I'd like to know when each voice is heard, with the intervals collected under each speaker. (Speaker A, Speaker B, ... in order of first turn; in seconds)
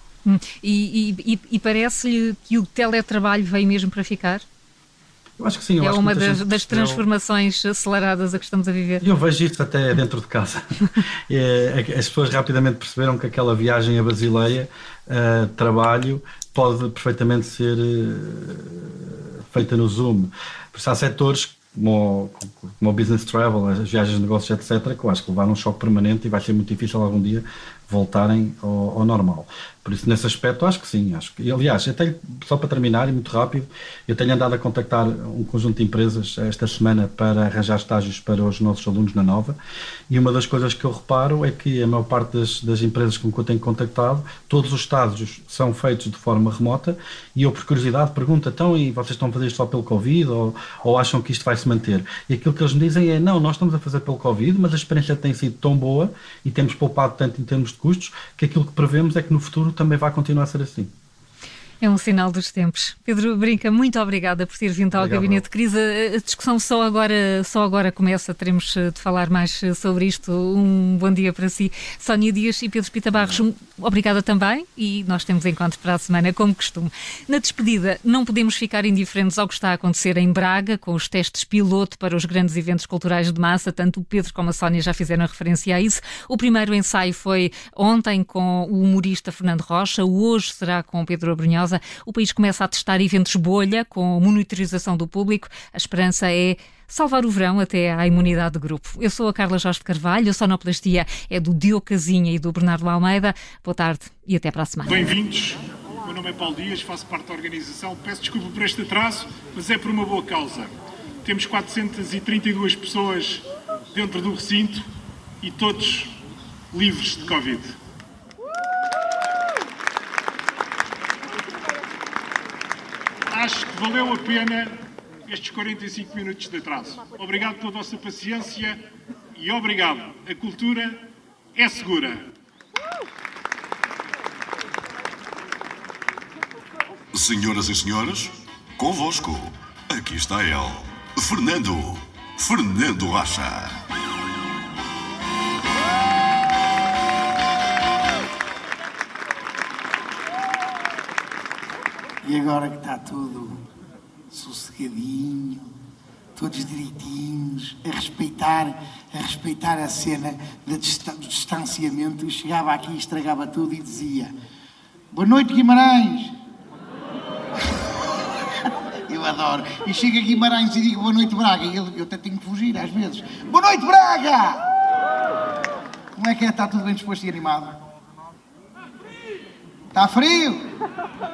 Speaker A: 0.2-4.4, 5.8-9.0, 61.8-105.0
Speaker B: 5.4-7.0, 9.0-39.6, 40.1-60.9, 64.9-65.4
Speaker C: 104.9-110.7, 111.2-114.9, 115.4-116.2, 116.7-117.8, 123.3-128.8, 129.4-132.2
Speaker D: 137.1-143.8
Speaker E: 152.2-153.6, 154.3-155.7, 156.4-164.3, 165.1-166.4, 169.1-174.7, 176.2-177.8, 179.9-180.7